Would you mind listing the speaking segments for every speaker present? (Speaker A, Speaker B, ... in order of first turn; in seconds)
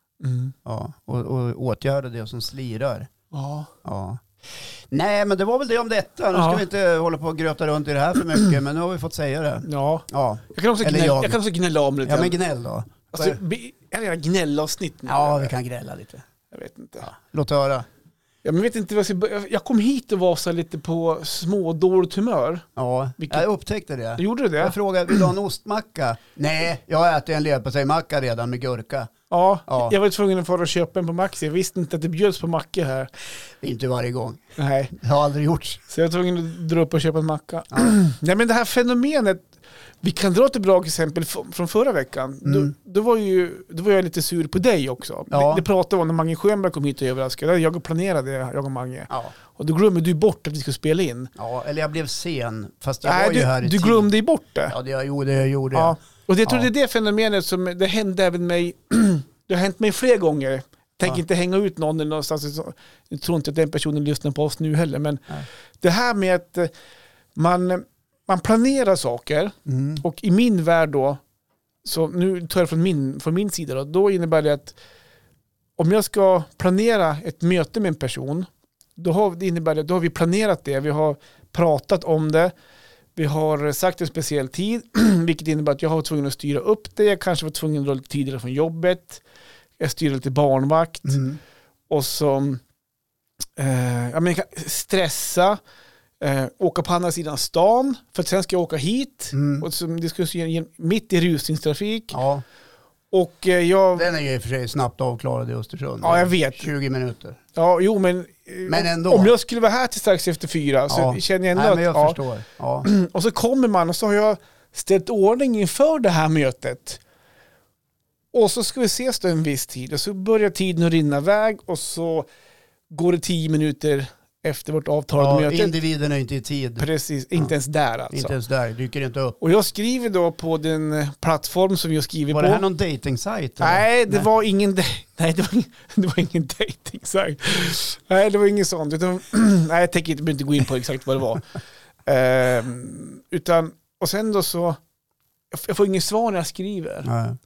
Speaker A: 0.2-0.5, 3.3-3.7, 6.3-6.7, 9.6-12.4, 13.1-15.5, 16.5-17.1, 18.4-22.6, 23.2-23.5, 24.2-24.8, 29.3-33.1, 34.6-34.9, 35.9-51.3, 53.0-54.8, 55.7-65.3, 65.8-66.7, 67.4-71.2, 71.8-74.8, 75.8-82.5, 83.2-89.2, 89.8-91.2, 91.9-92.6, 93.6-95.6, 96.2-102.2, 103.1-104.1, 106.0-106.7, 107.5-112.2, 112.8-117.0, 118.3-122.3, 122.9-125.7, 126.8-128.3, 129.4-132.6, 133.6-144.8, 145.5-147.1
Speaker B: 0.7-3.1, 3.8-4.2, 4.9-11.4, 12.0-13.4, 15.1-16.2, 17.0-17.9, 22.8-29.1, 29.7-29.9, 33.6-35.8, 42.4-42.7, 45.3-45.6, 51.4-54.1, 54.7-56.7, 69.7-70.0, 91.1-91.4, 99.3-99.7, 102.1-102.4, 104.0-107.4, 108.7-109.3, 110.9-112.9, 125.2-127.5, 128.1-129.4, 132.3-134.3, 147.1-147.4